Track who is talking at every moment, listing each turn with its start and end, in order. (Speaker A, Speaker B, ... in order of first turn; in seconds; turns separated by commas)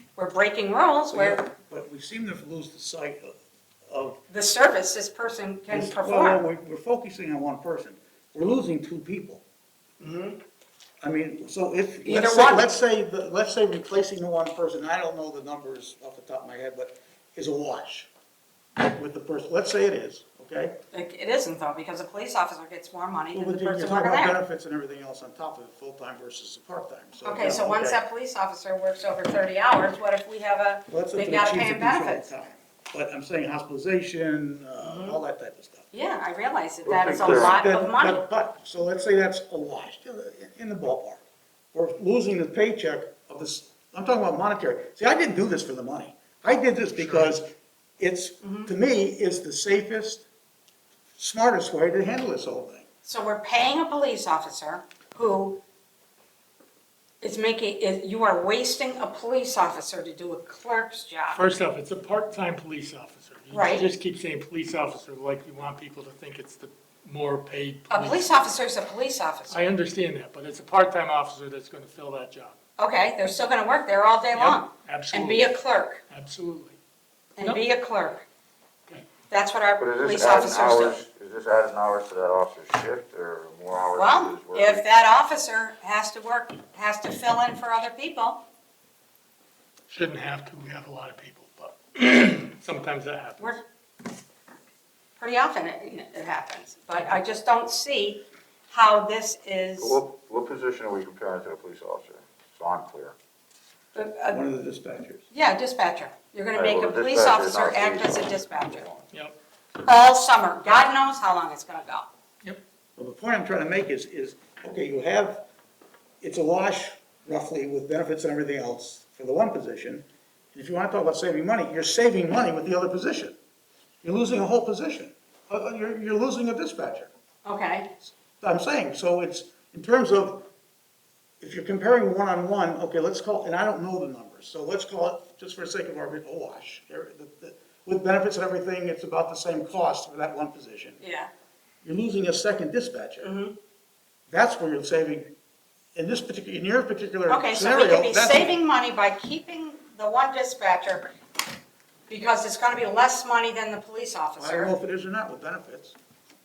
Speaker A: 0.2-1.5, Speaker B: 1.1-4.2, Speaker A: 4.3-6.4, Speaker B: 5.7-9.4, Speaker A: 10.0-10.4, Speaker B: 11.0-18.1, Speaker A: 12.0-12.7, Speaker B: 18.8-20.8, Speaker A: 20.9-24.4, Speaker B: 23.3-28.0, Speaker A: 27.2-32.3, Speaker B: 30.9-35.9, Speaker A: 34.8-35.2, Speaker A: 35.9-38.2, Speaker C: 36.8-37.6, Speaker B: 37.2-41.2, Speaker B: 41.7-50.2, Speaker D: 47.0-47.3, Speaker A: 48.4-48.7, Speaker B: 51.2-52.9, Speaker A: 53.0-55.6, Speaker A: 57.2-61.4, Speaker D: 61.3-68.4, Speaker A: 63.5-63.9, Speaker A: 67.9-69.6, Speaker D: 69.5-72.6, Speaker A: 72.8-76.0, Speaker D: 74.3-75.5, Speaker D: 76.1-76.8, Speaker A: 77.4-78.2, Speaker A: 79.3-81.0, Speaker C: 79.8-84.8, Speaker A: 84.0-88.4, Speaker D: 89.9-93.6, Speaker A: 95.2-100.0, Speaker C: 99.8-103.2, Speaker A: 104.0-104.4, Speaker B: 104.3-105.2, Speaker A: 105.3-108.8, Speaker C: 106.5-109.1, Speaker A: 109.8-112.1, Speaker B: 113.0-115.4, Speaker B: 116.2-123.3, Speaker B: 124.0-127.1, Speaker A: 127.5-127.9, Speaker B: 128.4-130.5, Speaker B: 131.4-141.0, Speaker A: 141.0-141.3, Speaker B: 141.8-143.3, Speaker A: 143.2-143.5, Speaker B: 144.3-145.3, Speaker B: 145.9-148.6, Speaker A: 147.3-151.1, Speaker A: 152.1-154.7, Speaker B: 154.4-156.0